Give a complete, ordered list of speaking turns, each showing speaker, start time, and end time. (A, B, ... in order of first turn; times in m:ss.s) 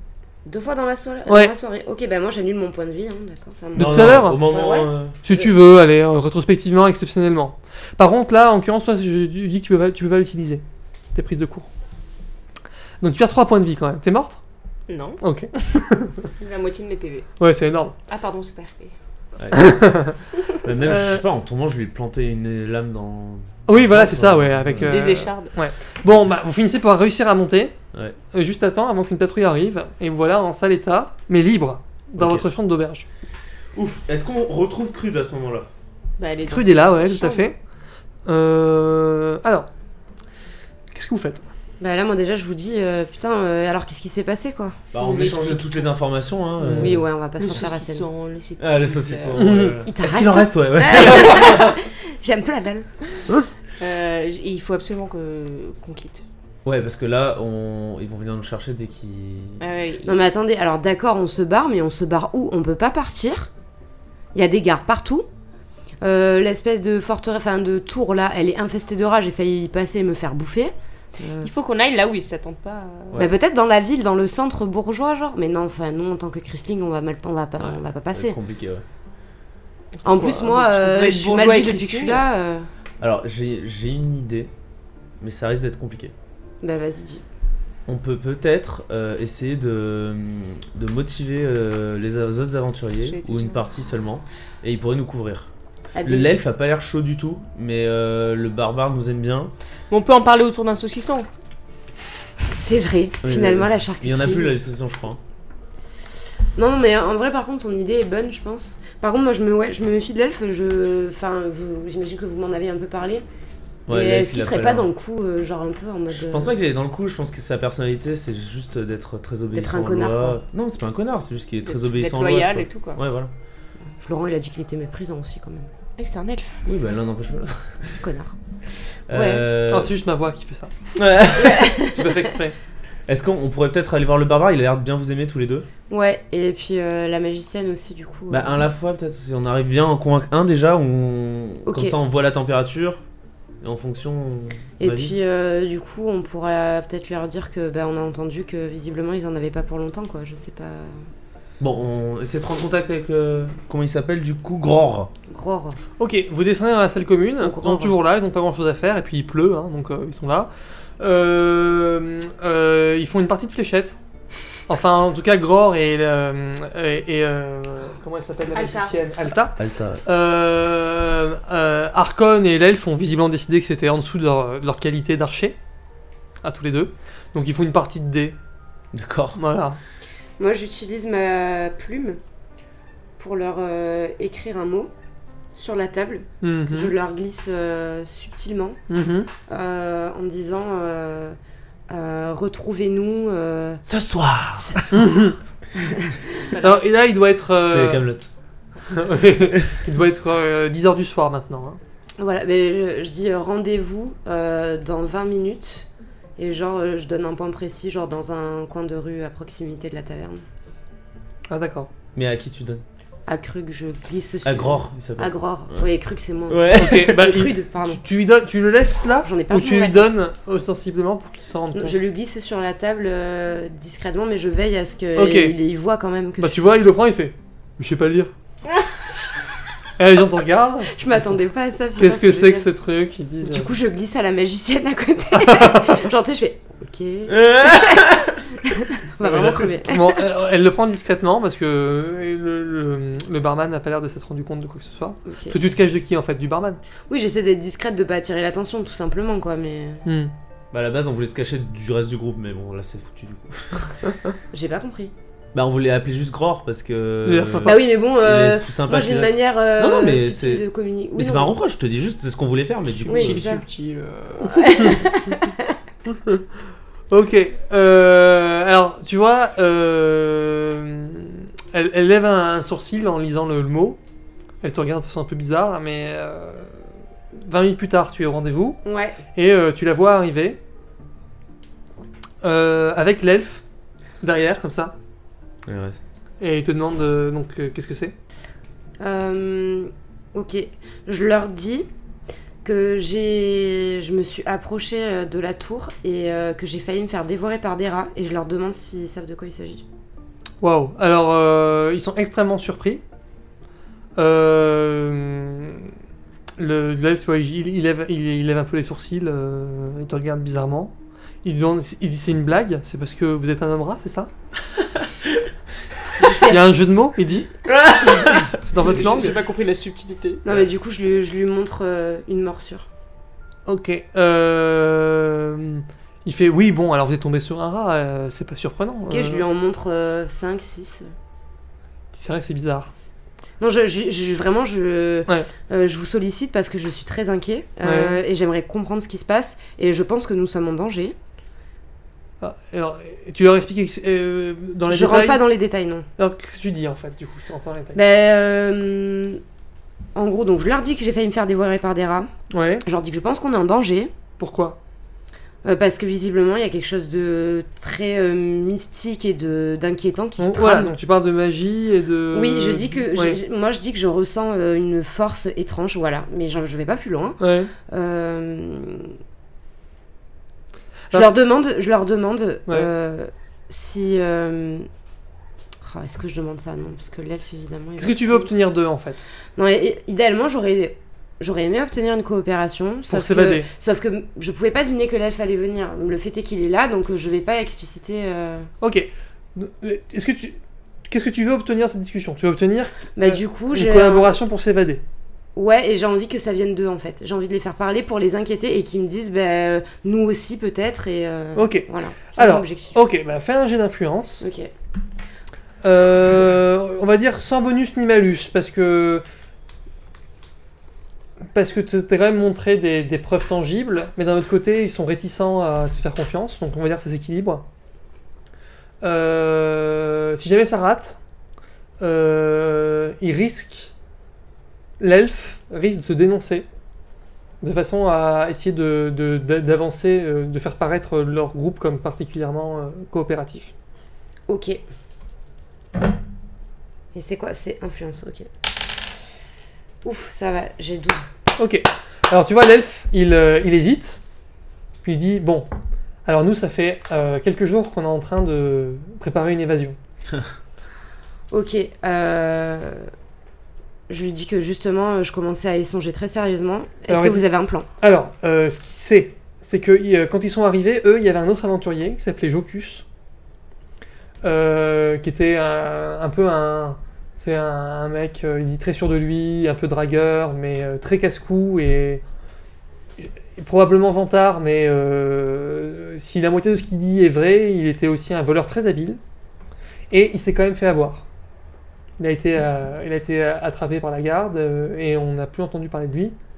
0:00.4-0:05.5 A
0:01.3-0:01.5 B
0:03.8-0:04.4 B
0:03.8-0:05.2 C
0:05.2-0:10.6 B
0:11.1-0:11.7 B
0:13.0-0:14.4 B
0:14.9-0:15.2 D
0:15.2-0:16.3 B
0:16.4-0:17.3 D
0:17.4-0:18.0 B
0:18.1-0:18.9 D
0:19.4-0:19.8 C
0:19.5-0:20.2 B
0:20.6-0:25.0 C
0:20.8-0:21.2 B
0:23.7-0:27.7 B
0:24.8-0:25.5 D
0:28.3-0:33.1 B
0:32.2-0:32.4 C
0:33.7-0:35.7 C
0:36.2-0:37.5 D
0:36.5-0:37.6 B
0:38.2-0:39.7 B
0:40.9-0:41.4 B
0:41.8-0:45.9 A
0:44.9-0:47.0 C
0:46.6-0:47.0 B
0:46.7-0:48.1 A
0:47.4-0:49.5 D
0:48.6-0:51.7 C
0:49.3-0:49.8 B
0:49.8-0:52.9 A
0:53.8-0:56.2 D
0:56.6-0:59.6 C
0:59.6-1:00.2 D
1:00.0-1:03.5 A
1:04.3-1:05.3 A
1:06.0-1:11.5 A
1:11.4-1:13.3 D
1:13.2-1:18.4 A
1:17.6-1:18.8 C
1:20.0-1:22.7 A
1:20.0-1:22.3 D
1:23.0-1:24.5 C
1:25.2-1:26.1 C
1:26.6-1:27.2 A
1:27.9-1:35.5 C
1:33.0-1:33.6 D
1:35.9-1:36.4 A
1:36.0-1:39.5 C
1:39.9-1:41.3 D
1:42.4-1:44.6 A
1:43.2-1:45.2 C
1:46.5-1:53.2 A
1:53.9-1:54.9 C
1:53.9-1:56.5 A
1:56.1-2:03.3 C
1:59.5-2:00.4 A
2:01.6-2:03.0 D
2:04.0-2:05.7 A
2:06.0-2:06.6 D
2:06.6-2:08.0 C
2:08.0-2:08.3 A
2:09.1-2:09.9 C
2:09.1-2:09.4 A
2:09.7-2:10.7 B
2:11.0-2:11.8 C
2:11.7-2:12.6 B
2:13.1-2:15.7 C
2:15.9-2:18.6 A
2:18.3-2:23.0 C
2:21.7-2:22.0 A
2:23.6-2:25.2 C
2:24.8-2:31.0 A
2:31.6-2:35.1 C
2:35.3-2:35.8 A
2:36.0-2:44.0 B
2:37.4-2:37.9 A
2:44.7-2:55.6 B
2:48.5-2:48.9 D
2:49.6-2:50.0 C
2:56.4-2:58.4 B
2:58.9-2:59.4 C
2:59.4-2:59.8 B
3:00.4-3:02.2 A
3:03.2-3:04.9 A
3:05.6-3:08.8 A
3:06.4-3:06.9 B
3:08.9-3:09.3 B
3:09.5-3:11.4 A
3:11.9-3:13.8 A
3:13.8-3:15.1 C
3:14.9-3:15.3 B
3:16.3-3:16.9 D
3:16.6-3:18.0 B
3:17.6-3:18.3 C
3:18.9-3:21.8 B
3:22.2-3:30.4 A
3:31.5-3:31.9 B
3:32.1-3:32.8 C
3:33.3-3:38.0 A
3:34.4-3:35.8 C
3:36.5-3:37.3 C
3:36.7-3:42.0 B
3:39.2-3:40.1 A
3:41.7-3:46.6 A
3:45.1-3:45.6 B
3:46.4-3:48.3 B
3:50.0-3:50.9 B
3:50.9-3:52.7 A
3:52.0-3:53.7 B
3:53.4-4:00.2 A
3:57.3-3:58.4 C
3:59.2-3:59.8 C
3:59.9-4:06.8 B
4:05.3-4:05.6 A
4:07.1-4:10.0 A
4:10.0-4:10.3 B
4:10.7-4:14.1 C
4:14.5-4:15.1 A
4:15.5-4:23.5 C
4:17.2-4:17.8 B
4:17.6-4:21.6 A
4:22.9-4:25.1 D
4:23.1-4:23.6 A
4:24.5-4:25.6 A
4:27.1-4:34.0 B
4:34.6-4:36.8 B
4:37.3-4:38.8 B
4:38.8-4:39.2 A
4:39.4-4:40.6 B
4:42.4-4:43.6 B
4:44.2-4:44.9 B
4:45.7-4:46.0 C
4:46.4-4:48.1 B
4:49.0-4:51.9 A
4:52.6-4:59.8 A
5:00.6-5:03.0 B
5:04.2-5:05.9 B
5:06.6-5:14.3 B
5:16.2-5:16.6 A
5:16.5-5:17.5 B
5:17.7-5:19.2 C
5:18.6-5:19.4 B
5:18.8-5:20.4 D
5:20.4-5:22.9 A
5:23.6-5:29.4 B
5:29.1-5:31.1 A
5:32.1-5:32.9 B
5:33.6-5:41.2 A
5:37.8-5:38.2 B
5:42.4-5:45.5 B
5:44.9-5:46.1 A
5:46.2-5:48.0 B
5:47.9-5:49.4 A
5:50.1-5:52.3 A
5:52.5-5:52.8 B
5:52.8-5:54.1 A
5:54.4-5:54.8 B
5:55.6-6:01.0 A
6:00.4-6:03.4 B
6:02.3-6:09.1 A
6:07.4-6:07.7 B
6:11.1-6:14.8 A
6:15.8-6:18.5 A
6:18.0-6:19.2 B
6:19.6-6:28.7 A
6:23.1-6:23.7 B
6:28.8-6:35.0 B
6:33.1-6:34.4 A
6:35.5-6:43.0 A
6:41.6-6:44.4 B
6:44.4-6:44.7 A
6:45.8-6:49.2 B
6:51.5-6:57.6 B
6:59.0-7:01.2 B
7:02.0-7:03.9 B
7:05.0-7:06.6 B
7:07.6-7:13.7 B
7:14.5-7:14.8 A
7:17.1-7:18.5 A
7:20.0-7:21.2 A
7:21.6-7:24.2 B
7:25.0-7:25.7 B
7:26.2-7:30.0 B
7:31.5-7:33.1 A
7:34.1-7:37.9 A
7:37.1-7:37.4 B
7:38.0-7:43.0 B
7:44.4-7:52.2 B
7:53.2-7:59.2 B
8:00.1-8:01.2 B
8:02.2-8:06.4 B